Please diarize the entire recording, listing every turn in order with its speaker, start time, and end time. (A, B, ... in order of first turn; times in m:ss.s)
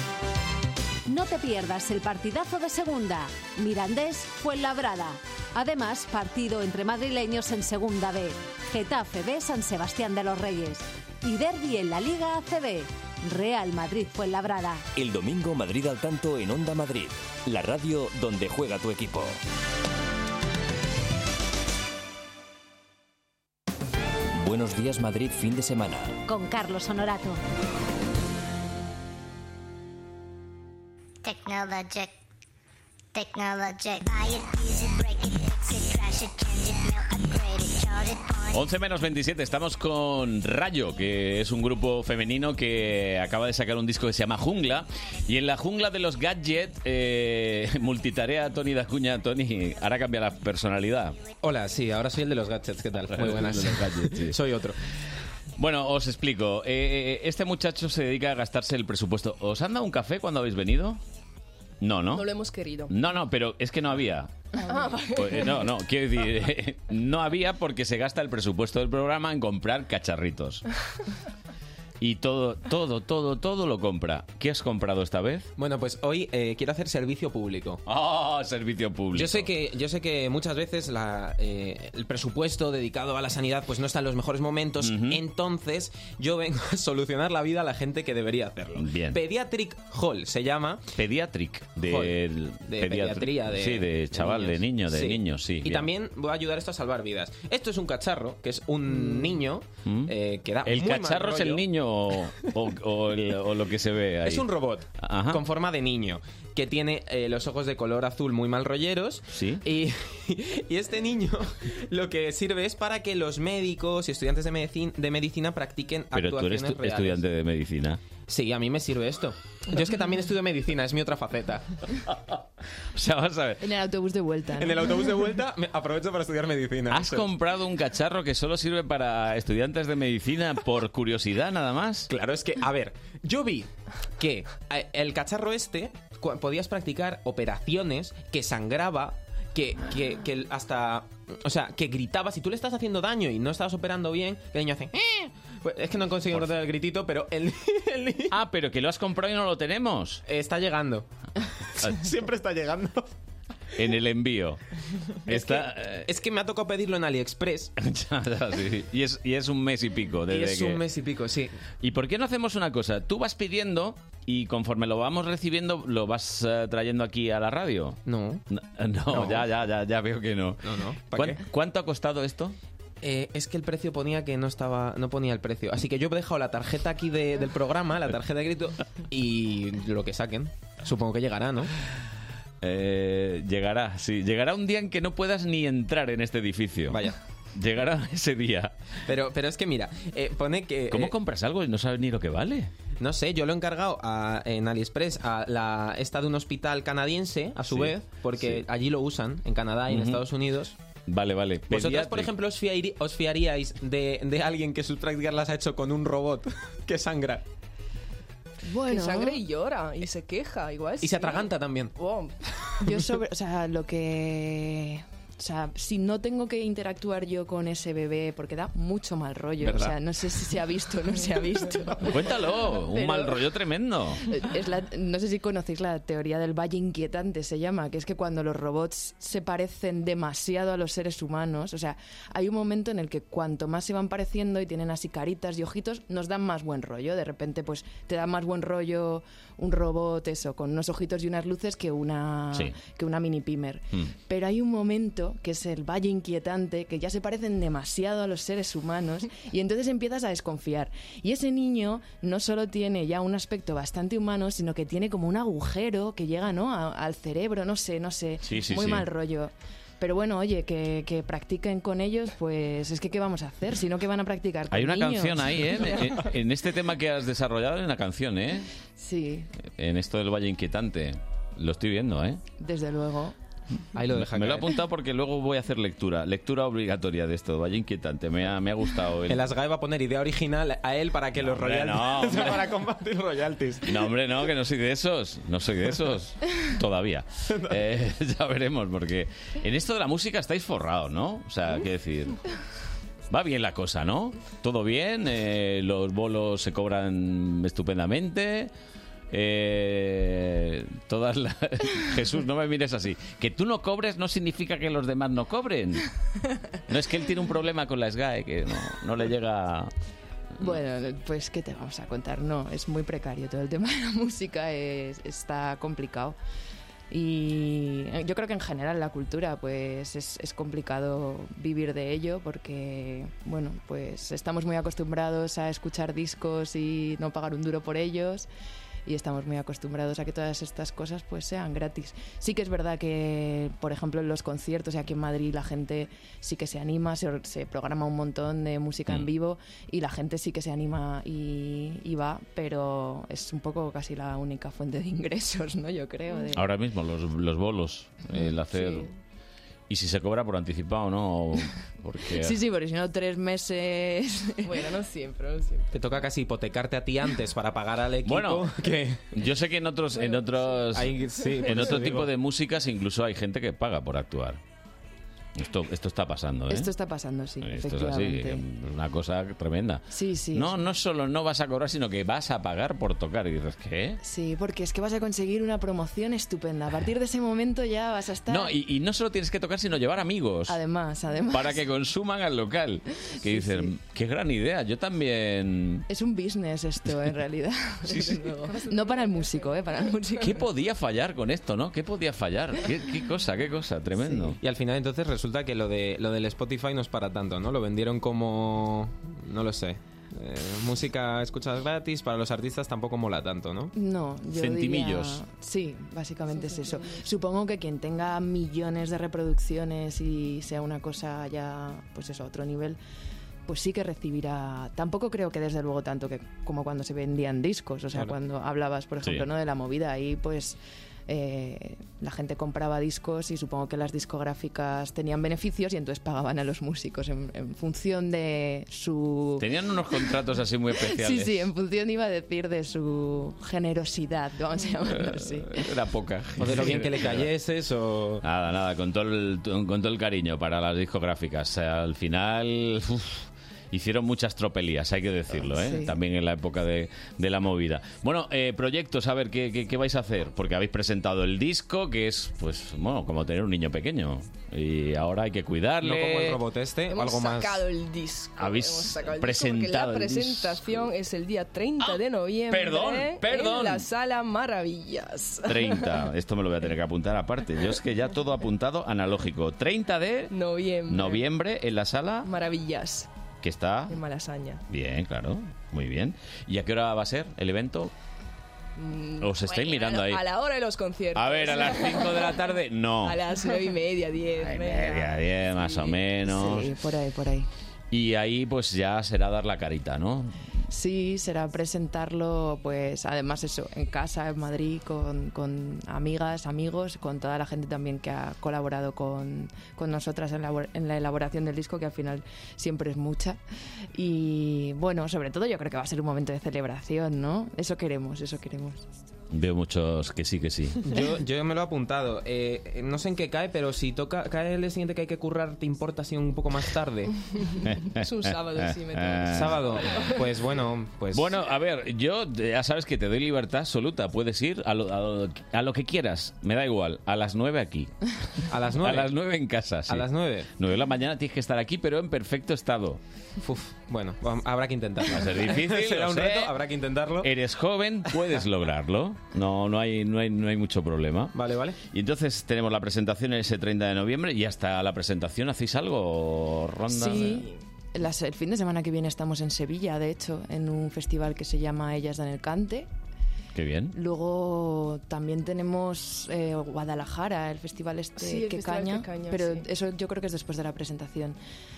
0:01.1-0:14.8 A
0:14.9-0:19.4 B
0:24.3-0:26.2 B
0:26.2-0:27.4 A
0:31.2-0:32.1 C
0:33.1-0:38.6 C
0:38.5-0:51.2 D
0:51.4-0:54.8 E
0:53.1-0:54.4 D
0:55.6-1:01.0 D
1:01.8-1:02.3 D
1:02.2-1:02.9 F
1:02.9-1:04.3 D
1:04.7-1:05.3 F
1:05.1-1:10.6 D
1:12.0-1:15.5 D
1:15.6-1:17.8 E
1:17.8-1:19.5 D
1:19.1-1:30.9 E
1:24.8-1:25.2 D
1:28.8-1:29.2 D
1:31.0-1:35.9 D
1:31.8-1:32.2 E
1:32.7-1:41.6 E
1:39.8-1:40.1 D
1:40.6-1:44.4 D
1:44.2-1:57.2 E
1:45.0-1:45.4 D
1:49.3-1:49.6 D
1:56.1-1:58.0 D
1:58.3-2:01.6 E
2:02.1-2:02.3 D
2:02.9-2:03.6 D
2:03.6-2:04.8 G
2:04.6-2:07.3 E
2:06.9-2:12.1 D
2:12.1-2:28.3 E
2:28.3-2:30.2 D
2:30.3-2:31.1 E
2:31.8-2:33.1 E
2:31.8-2:32.1 D
2:33.8-2:34.6 D
2:35.3-2:36.1 D
2:35.3-2:37.7 E
2:37.8-2:40.8 D
2:40.3-2:41.5 E
2:41.8-2:48.0 D
2:48.0-2:48.4 E
2:48.5-2:52.6 D
2:49.1-2:49.4 E
2:50.6-2:51.4 E
2:53.0-3:01.7 E
3:02.6-3:07.0 D
3:06.9-3:07.2 E
3:07.6-3:08.7 D
3:09.1-3:11.1 E
3:10.9-3:12.7 D
3:13.0-3:20.7 E
3:17.7-3:18.6 D
3:19.9-3:20.2 D
3:21.1-3:22.3 D
3:21.7-3:27.4 E
3:28.6-3:29.4 G
3:28.9-3:32.3 F
3:31.0-3:31.9 E
3:32.8-3:42.3 G
3:39.6-3:39.9 E
3:42.0-3:44.2 D
3:42.9-3:43.4 G
3:44.3-4:25.8 G
4:18.4-4:19.1 D
4:24.7-4:28.7 D
4:29.0-4:29.5 G
4:29.6-4:32.4 D
4:32.6-4:33.3 G
4:34.0-4:34.7 E
4:34.1-4:39.4 D
4:39.3-4:44.0 E
4:41.4-4:42.7 D
4:43.9-4:52.4 D
4:47.5-4:47.8 E
4:53.3-4:58.7 D
4:59.3-5:06.0 D
5:06.9-5:09.9 D
5:10.6-5:16.4 G
5:17.1-5:28.5 G
5:29.0-5:46.6 G
5:46.5-5:49.1 D
5:48.8-5:49.0 F
5:49.9-5:52.6 D
5:52.4-5:54.8 G
5:54.6-5:56.0 F
5:55.9-5:59.3 E
5:58.2-5:58.7 D
5:59.3-6:04.6 D
6:00.1-6:00.8 F
6:00.9-6:02.3 E
6:05.6-6:06.9 D
6:06.7-6:08.6 G
6:07.6-6:14.2 D
6:10.1-6:10.8 G
6:14.2-6:18.7 G
6:18.5-6:20.8 D
6:20.7-6:21.8 G
6:21.5-6:26.0 D
6:23.4-6:23.9 G
6:26.1-6:30.6 G
6:28.3-6:29.8 F
6:30.4-6:34.6 D
6:34.2-6:34.6 G
6:34.6-6:43.9 E
6:44.0-6:53.0 G
6:44.5-6:45.4 D
6:46.5-6:47.2 F
6:53.6-7:09.6 G
6:59.2-6:59.5 D
7:09.6-7:11.7 D
7:10.9-7:15.9 G
7:15.0-7:17.5 D
7:16.6-7:18.4 E
7:18.4-7:36.6 D
7:25.6-7:26.2 G
7:36.0-7:37.8 E
7:37.1-7:46.2 F
7:38.6-7:41.1 D
7:42.0-7:44.1 D
7:45.7-7:50.5 D
7:50.5-7:51.4 F
7:51.1-7:52.5 D
7:52.4-7:53.3 F
7:53.6-7:54.2 D
7:54.1-7:54.8 F
7:54.9-7:58.1 D
7:59.0-8:02.6 F
7:59.4-8:00.4 D
8:01.3-8:03.5 D
8:03.2-8:05.4 F
8:04.6-8:06.9 D
8:06.4-8:07.7 G
8:08.1-8:10.5 D
8:10.9-8:23.6 G
8:24.1-8:29.0 G
8:29.5-8:31.0 D
8:31.0-8:37.3 E
8:37.8-8:40.3 D
8:38.2-8:40.2 F
8:39.5-8:41.5 E
8:41.3-8:48.1 D
8:48.7-8:49.3 E
8:49.0-8:50.2 D
8:50.1-8:50.7 E
8:50.8-8:53.2 D
8:53.6-8:57.5 E
8:55.2-8:56.7 D
8:57.4-9:01.5 D
9:01.5-9:02.0 E
9:02.1-9:07.6 D
9:07.2-9:13.1 G
9:07.4-9:07.8 F
9:13.7-9:14.1 D
9:14.1-9:21.6 G
9:18.4-9:19.8 F